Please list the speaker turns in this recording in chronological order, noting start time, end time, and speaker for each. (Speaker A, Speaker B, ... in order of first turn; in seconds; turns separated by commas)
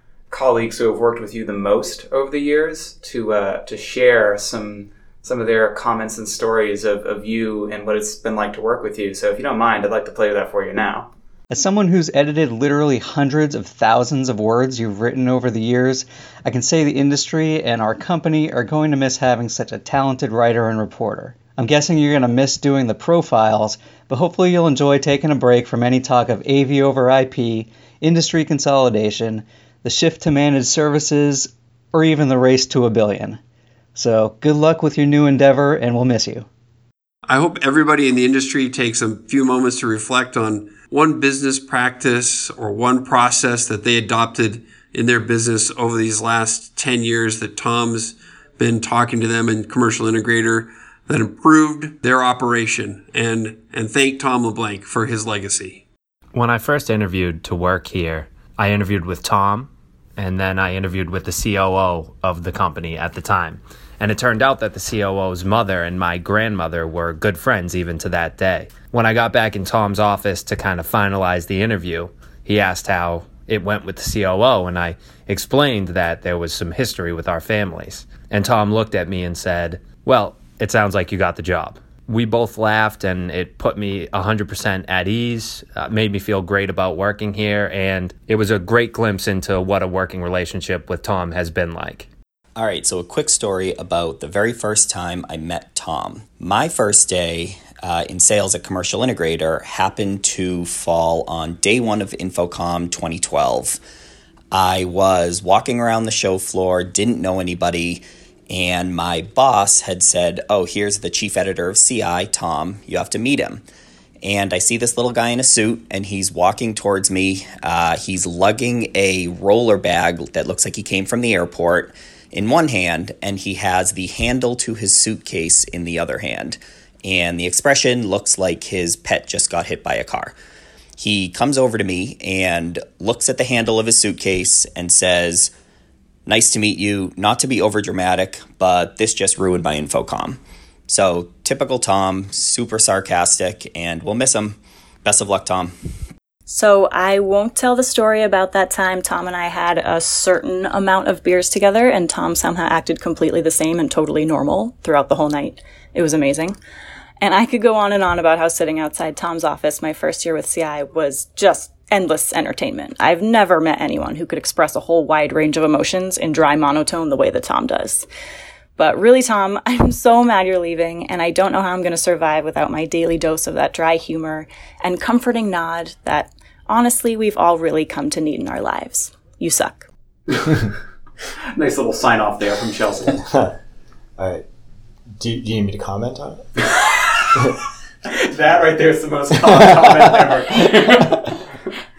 Speaker A: 0.3-11.1, Speaker B: 11.5-33.4, Speaker B: 33.9-36.5, Speaker C: 37.2-55.8, Speaker D: 56.3-92.1, Speaker E: 92.6-103.8, Speaker E: 104.5-113.6, Speaker E: 114.2-130.3, Speaker E: 131.0-135.5, Speaker E: 136.2-145.7, Speaker F: 146.5-156.6, Speaker F: 157.2-168.1, Speaker F: 168.8-179.9, Speaker A: 181.5-183.2, Speaker G: 183.2-183.5, Speaker G: 184.2-184.4, Speaker G: 185.2-186.5, Speaker A: 188.1-191.3